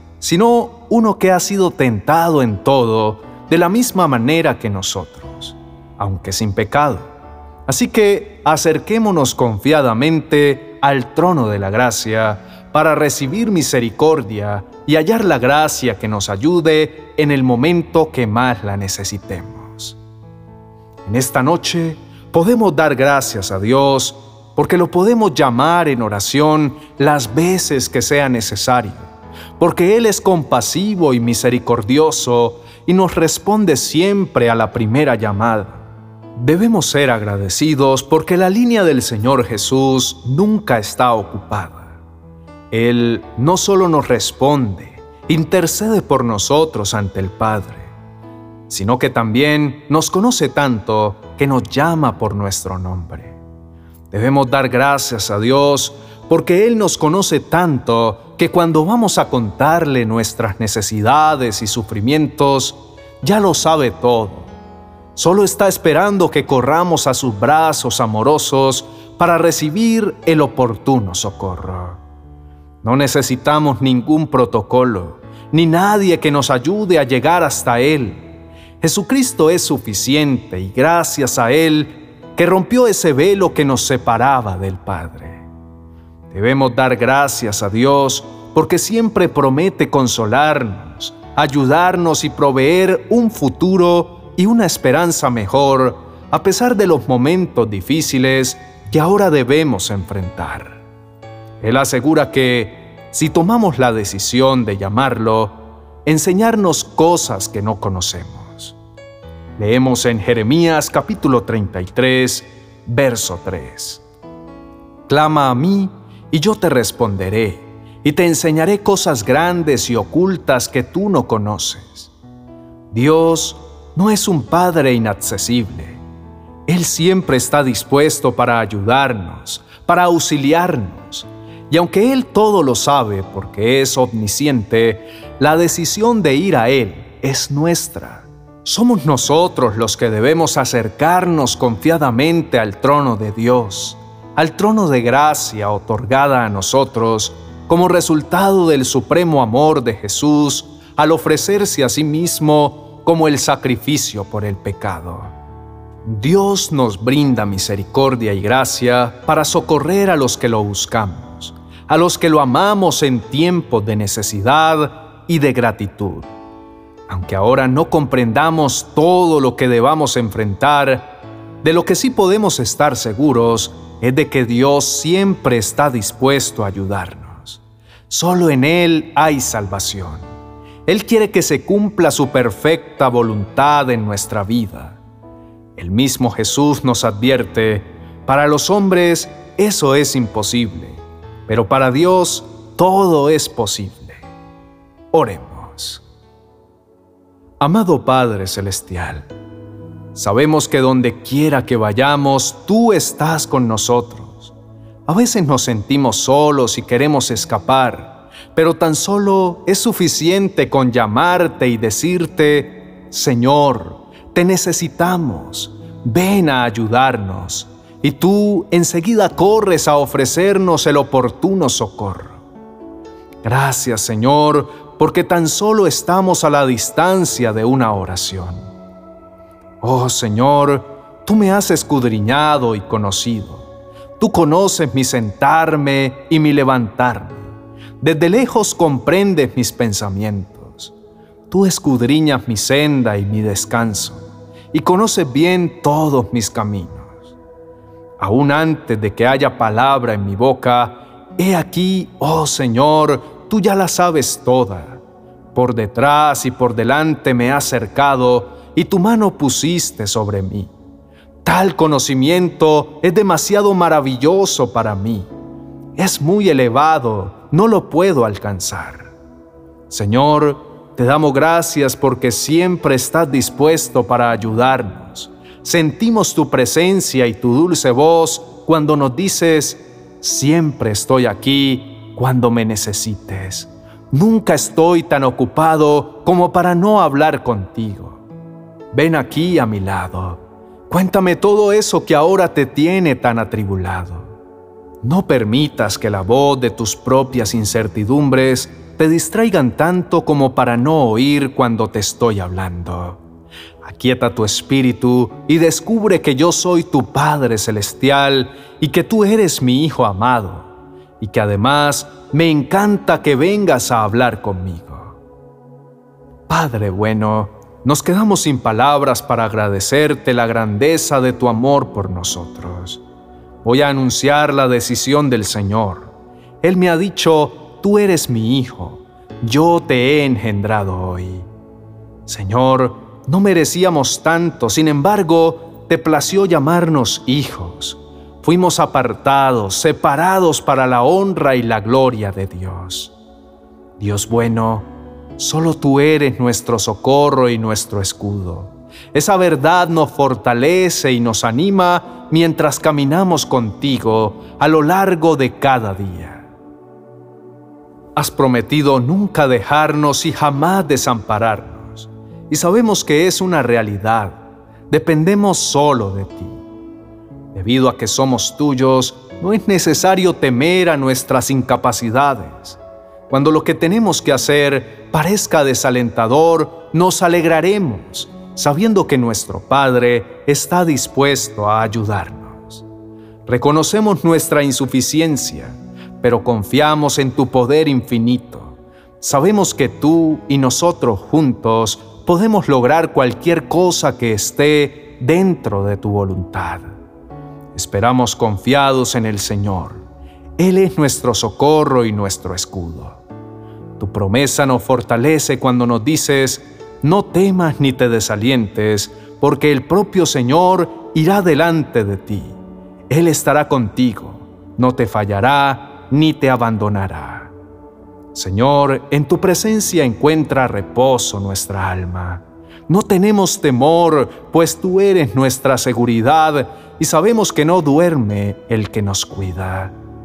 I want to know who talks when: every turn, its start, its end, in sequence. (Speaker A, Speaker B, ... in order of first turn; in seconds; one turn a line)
Speaker A: 0.2-7.1
Speaker A: 7.7-20.0
Speaker A: 21.1-35.8
Speaker A: 36.4-42.0
Speaker A: 42.7-47.9
Speaker A: 48.7-53.4
Speaker A: 54.1-64.5
Speaker A: 65.1-72.0
Speaker A: 72.8-78.2
Speaker A: 78.8-85.4
Speaker A: 86.3-100.8
Speaker A: 101.6-108.8
Speaker A: 109.6-114.0
Speaker A: 115.1-122.1
Speaker A: 122.9-126.0
Speaker A: 126.7-155.3
Speaker A: 156.0-166.3
Speaker A: 167.1-180.3
Speaker A: 180.9-185.0
Speaker A: 185.8-194.2
Speaker A: 195.1-196.0
Speaker A: 197.6-199.3
Speaker A: 200.1-204.5
Speaker A: 205.1-222.4
Speaker A: 223.4-228.7
Speaker A: 229.8-233.7
Speaker A: 234.2-240.9
Speaker A: 241.5-247.3
Speaker A: 248.2-255.0
Speaker A: 255.5-260.7
Speaker A: 261.4-265.3
Speaker A: 266.0-269.1
Speaker A: 269.9-288.2
Speaker A: 288.9-294.3
Speaker A: 295.0-303.2
Speaker A: 303.8-315.2
Speaker A: 316.5-323.0
Speaker A: 323.6-331.5
Speaker A: 332.2-343.1
Speaker A: 344.0-356.5
Speaker A: 358.1-364.4
Speaker A: 364.9-366.6
Speaker A: 367.5-382.8
Speaker A: 383.4-396.9
Speaker A: 397.7-400.0
Speaker A: 400.6-403.2
Speaker A: 404.0-412.6
Speaker A: 413.1-417.5
Speaker A: 418.3-429.9